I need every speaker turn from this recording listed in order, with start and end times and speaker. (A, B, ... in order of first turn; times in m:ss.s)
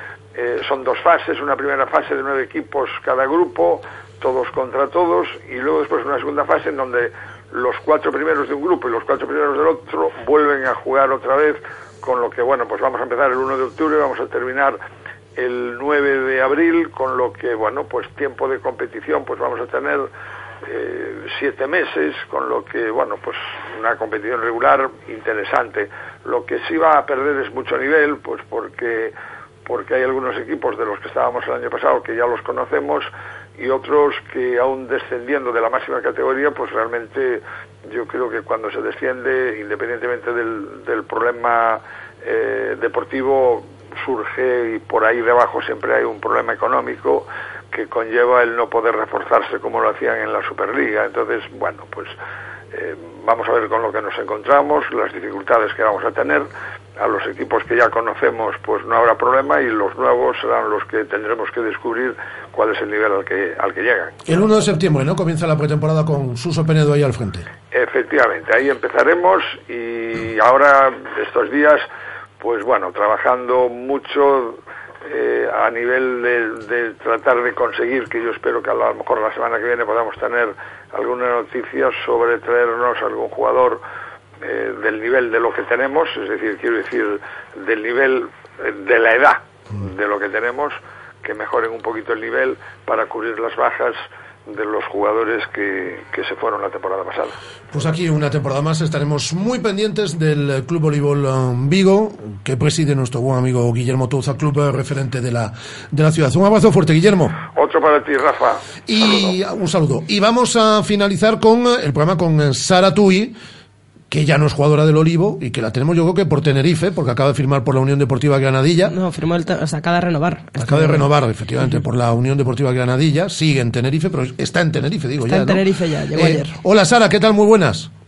0:00.3-0:14.8 A
0:15.4-0:20.1 A
0:20.6-0:29.1 A
0:29.6-0:52.2 A
0:52.7-0:56.5 A
0:57.0-1:04.1 A
1:04.2-1:07.5 B
1:07.7-1:11.8 A
1:12.4-1:23.8 A
1:24.4-1:37.4 A
1:37.7-1:47.4 B
1:47.5-1:49.3 A
1:48.9-1:53.3 B
1:54.1-1:58.9 B
1:58.9-2:01.1 C
2:00.6-2:05.6 B
2:05.2-2:06.5 C
2:06.1-2:07.9 B